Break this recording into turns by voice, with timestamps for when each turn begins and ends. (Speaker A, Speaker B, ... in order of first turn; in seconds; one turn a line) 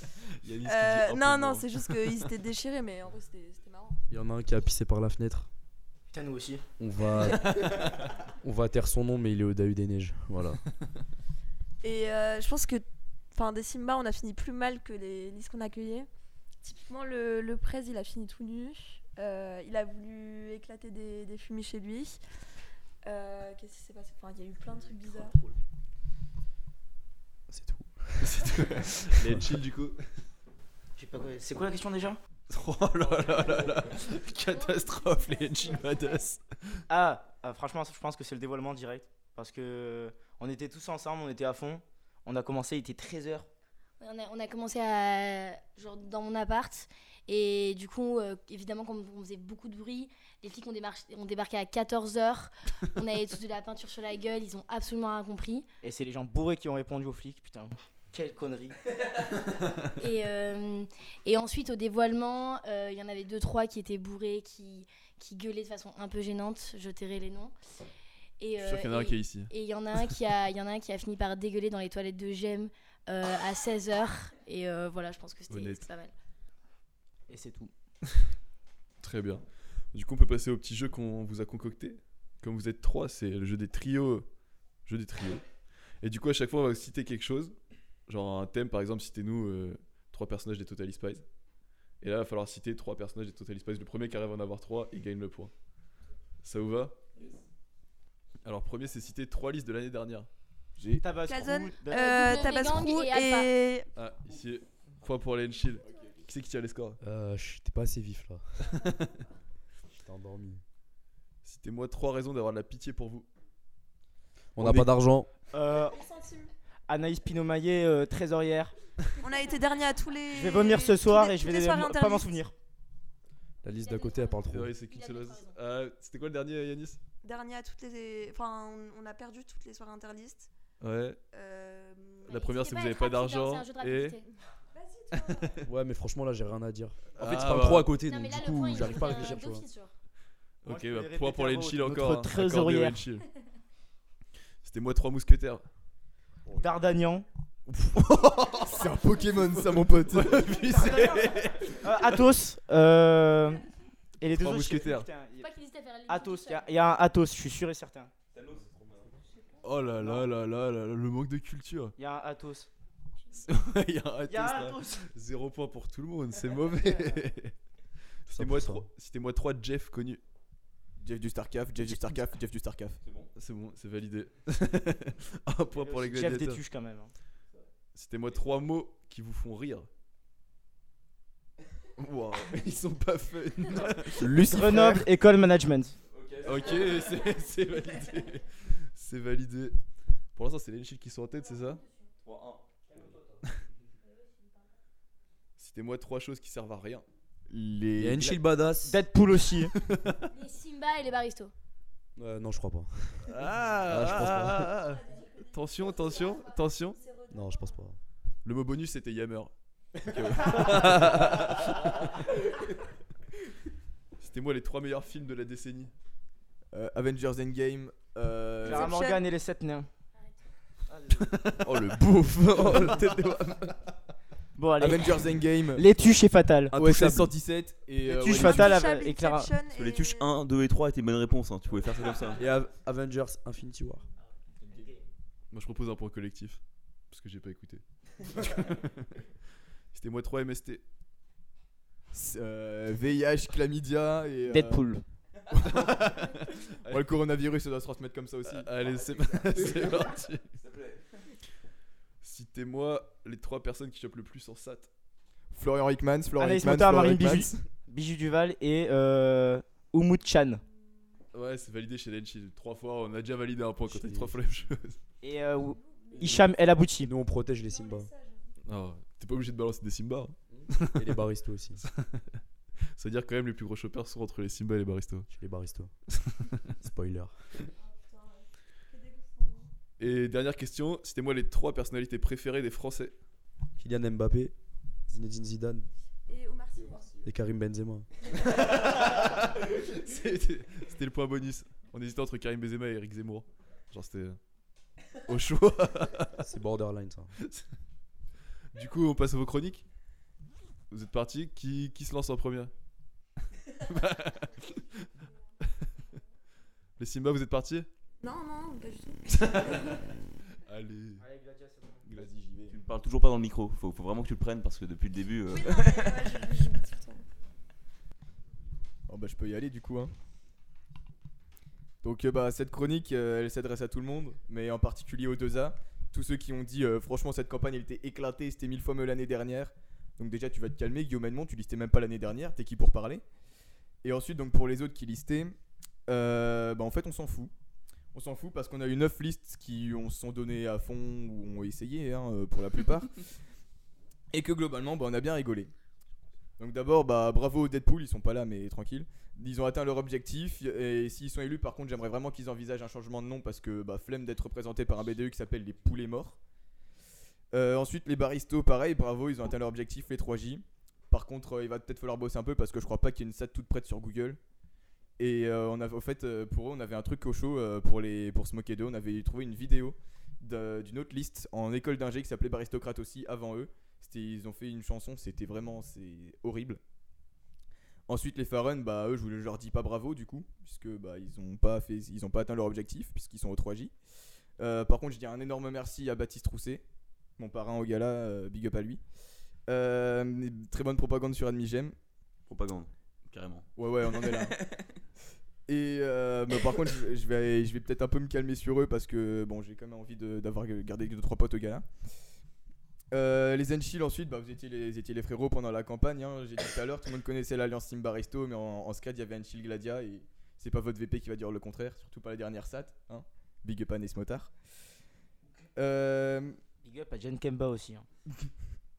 Speaker A: 0.4-2.3
Speaker B: 0.6-4.0
Speaker C: 4.1-5.5
Speaker D: 6.1-6.6
Speaker C: 6.8-7.7
Speaker C: 8.4-10.6
Speaker B: 11.8-16.1
Speaker B: 16.6-22.2
Speaker B: 23.0-25.4
Speaker C: 27.5-28.5
Speaker A: 28.2-30.0
Speaker C: 29.1-29.4
Speaker D: 31.0-32.2
Speaker A: 32.5-36.8
Speaker D: 36.9-43.5
Speaker E: 44.0-55.6
Speaker D: 55.8-58.8
Speaker E: 60.0-67.5
Speaker E: 68.4-76.1
Speaker A: 68.6-69.5
Speaker A: 75.5-75.8
Speaker D: 77.3-77.7
Speaker A: 79.0-84.2
Speaker A: 84.8-85.4
Speaker A: 86.0-87.5
Speaker A: 88.1-91.2
Speaker A: 92.0-95.5
Speaker A: 96.4-97.0
Speaker A: 98.4-100.3
Speaker D: 100.9-102.5
Speaker B: 101.2-103.9
Speaker E: 101.9-103.5
Speaker A: 104.0-107.0
Speaker C: 107.0-108.9
Speaker A: 108.8-109.2
Speaker C: 109.9-110.6
Speaker A: 111.4-113.2
Speaker C: 114.5-115.3
Speaker A: 114.6-114.9
Speaker D: 115.5-116.0
Speaker B: 115.9-116.5
Speaker D: 116.9-118.7
Speaker B: 119.2-122.3
Speaker D: 120.3-122.5
Speaker C: 123.6-124.7
Speaker E: 123.8-125.5
Speaker A: 124.5-127.0
Speaker B: 127.2-130.5
Speaker A: 130.8-131.2
Speaker B: 131.3-132.5
Speaker A: 132.3-134.2
Speaker E: 132.3-134.2
Speaker B: 134.7-135.6
Speaker A: 135.1-135.7
Speaker C: 135.7-139.6
Speaker A: 137.2-137.9
Speaker E: 138.0-139.9
Speaker A: 140.6-143.2
Speaker D: 140.7-143.0
Speaker A: 144.6-145.6
Speaker D: 146.6-147.2
Speaker A: 147.7-148.9
Speaker F: 148.6-150.9
Speaker A: 149.6-152.0
Speaker D: 150.8-151.2
Speaker D: 151.8-153.7
Speaker D: 154.2-155.5
Speaker A: 154.2-155.1
Speaker E: 155.4-156.8
Speaker D: 156.1-158.1
Speaker G: 158.3-159.1
Speaker A: 159.6-161.9
Speaker D: 160.0-160.3
Speaker D: 162.0-162.7
Speaker A: 163.3-167.5
Speaker D: 164.3-165.1
Speaker A: 168.2-170.2
Speaker C: 168.3-168.8
Speaker F: 171.0-173.0
Speaker G: 173.0-173.3
Speaker A: 173.3-176.6
Speaker D: 175.7-177.1
Speaker A: 177.9-179.9
Speaker A: 182.0-184.9
Speaker D: 184.2-185.9
Speaker G: 186.1-187.2
Speaker A: 186.4-189.8
Speaker A: 190.3-191.8
Speaker G: 192.2-192.6
Speaker A: 195.6-197.1
Speaker F: 197.5-198.4
Speaker C: 198.0-199.0
Speaker D: 198.8-199.7
Speaker A: 199.7-200.2
Speaker E: 200.3-201.5
Speaker C: 202.2-204.8
Speaker A: 203.2-207.0
Speaker C: 207.3-208.0
Speaker A: 208.4-209.5
Speaker A: 210.0-212.8
Speaker A: 214.2-215.9
Speaker F: 216.7-219.0
Speaker D: 218.6-219.9
Speaker B: 218.7-219.2
Speaker D: 220.9-221.5
Speaker A: 221.2-223.9
Speaker D: 224.6-226.8
Speaker F: 224.8-225.8
Speaker C: 226.7-227.3
Speaker F: 226.7-228.8
Speaker D: 228.0-229.5
Speaker B: 228.3-230.3
Speaker G: 229.7-232.4
Speaker C: 232.4-234.0
Speaker D: 234.7-235.0
Speaker A: 235.5-239.2
Speaker A: 239.9-240.8
Speaker F: 242.1-244.8
Speaker D: 244.5-245.0
Speaker F: 245.5-246.3
Speaker A: 245.6-247.1
Speaker F: 246.9-248.8
Speaker A: 248.4-250.4
Speaker G: 249.7-251.2
Speaker A: 252.2-254.9
Speaker F: 255.5-257.6
Speaker D: 256.4-260.6
Speaker A: 261.3-265.0
Speaker C: 263.9-264.4
Speaker D: 265.2-267.1
Speaker C: 267.0-268.1
Speaker B: 267.9-268.3
Speaker A: 268.6-271.0
Speaker C: 270.5-271.8
Speaker A: 271.8-272.4
Speaker A: 272.9-275.3
Speaker C: 275.3-275.9
Speaker A: 276.2-276.5
Speaker C: 276.8-277.4
Speaker B: 277.8-279.7
Speaker A: 280.0-283.1
Speaker C: 283.8-284.5
Speaker C: 285.1-285.9
Speaker B: 286.3-287.1
Speaker F: 286.9-287.2
Speaker C: 287.2-288.1
Speaker A: 288.3-294.4
Speaker A: 295.3-296.4
Speaker C: 296.4-297.3
Speaker A: 297.4-297.6
Speaker A: 298.7-299.8
Speaker A: 300.9-302.7
Speaker A: 303.7-305.1
Speaker A: 307.0-307.9
Speaker B: 308.2-310.0
Speaker A: 309.3-311.2
Speaker D: 311.2-312.1
Speaker F: 312.1-312.8
Speaker G: 312.7-316.3
Speaker B: 315.5-317.2
Speaker F: 319.1-320.1
Speaker F: 322.0-333.2
Speaker F: 334.0-335.6
Speaker F: 336.1-337.5
Speaker F: 338.1-343.2
Speaker F: 344.3-345.7
Speaker F: 346.6-356.4
Speaker F: 357.5-364.4
Speaker F: 365.2-376.8
Speaker F: 378.1-383.9
Speaker F: 384.6-386.8
Speaker F: 387.4-389.0
Speaker F: 389.7-391.9
Speaker G: 392.5-393.6
Speaker F: 393.8-394.5
Speaker G: 394.2-394.8
Speaker F: 395.7-401.9
Speaker F: 403.1-414.5
Speaker F: 415.8-416.6
Speaker D: 416.8-418.1